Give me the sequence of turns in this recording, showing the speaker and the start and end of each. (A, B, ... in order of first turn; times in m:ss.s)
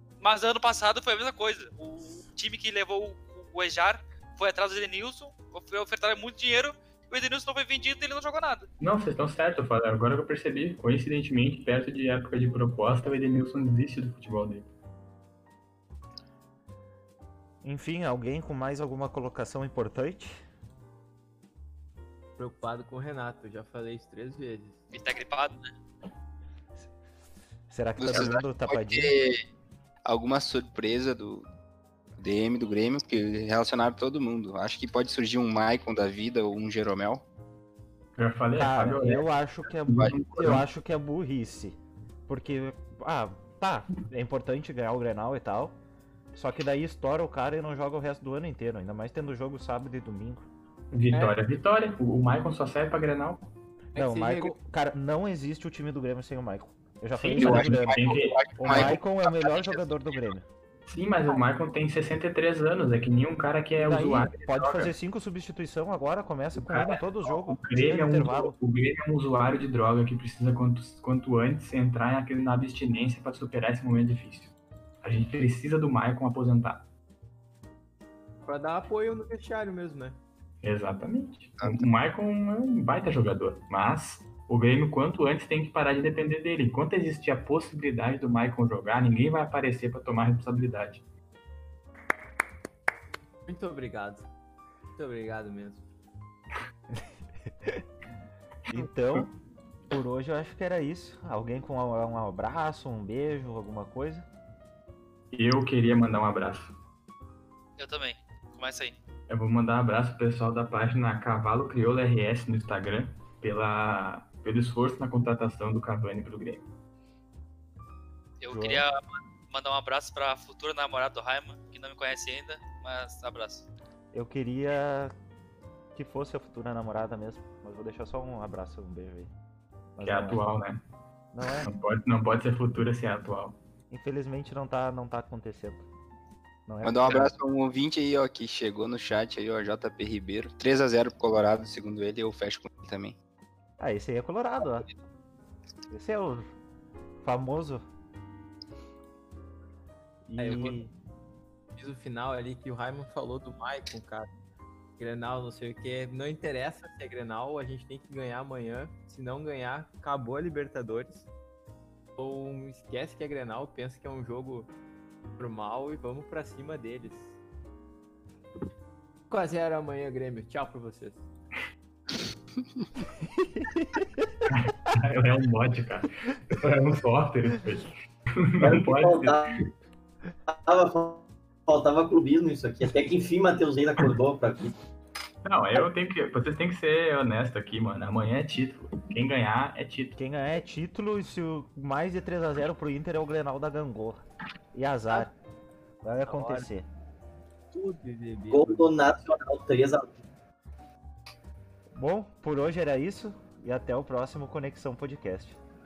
0:00.2-0:08.7 A
0:08.8-0:14.7 B
0:17.6-0:20.4 C
0:22.4-0:24.8 D
0:24.9-0:25.7 A
0:27.7-0:29.2 C
0:28.0-0:29.4 E
0:30.0-0:31.5 E
0:32.2-0:37.2 E
0:38.2-0:39.3 B
0:38.6-0:45.8 C
0:39.9-0:40.6 B
0:40.0-0:40.6 E
0:46.3-0:50.5 C
0:50.9-0:53.4 B
0:51.1-0:51.4 D
0:54.0-0:54.5 D
0:54.0-0:58.0 C
0:57.2-0:59.8 E
0:57.3-0:59.0 B
0:58.6-1:00.5 C
1:00.9-1:04.9 B
1:03.8-1:08.6 C
1:06.6-1:16.9 B
1:18.4-1:20.2 D
1:20.6-1:31.0 B
1:21.6-1:21.9 E
1:33.5-1:34.3 D
1:35.0-1:35.8 D
1:38.7-1:39.3 B
1:38.7-1:39.3 C
1:39.9-1:44.3 C
1:45.3-1:46.7 B
1:47.8-1:49.0 A
1:49.3-1:56.7 B
1:58.4-2:03.7 A
1:58.5-1:58.9 C
2:04.1-2:05.1 C
2:06.0-2:09.3 C
2:10.0-2:10.4 C
2:10.0-2:10.8 B
2:11.3-2:11.7 C
2:11.6-2:13.6 B
2:13.9-2:15.8 C
2:16.7-2:17.3 C
2:16.8-2:23.2 E
2:23.8-2:24.9 C
2:25.9-2:26.5 C
2:27.2-2:27.8 C
2:30.3-2:30.9 C
2:30.4-2:30.9 D
2:31.8-2:34.3 D
2:35.0-2:41.3 D
2:42.2-2:44.7 D
2:45.4-2:47.3 D
2:49.3-2:51.2 D
2:53.3-2:54.3 C
2:54.5-2:59.6 B
2:58.6-2:59.6 F
3:00.5-3:04.8 F
3:05.4-3:10.2 B
3:10.2-3:14.2 C
3:14.7-3:15.3 C
3:16.0-3:16.9 C
3:16.3-3:16.7 D
3:17.7-3:18.9 D
3:18.5-3:20.2 F
3:21.9-3:25.6 C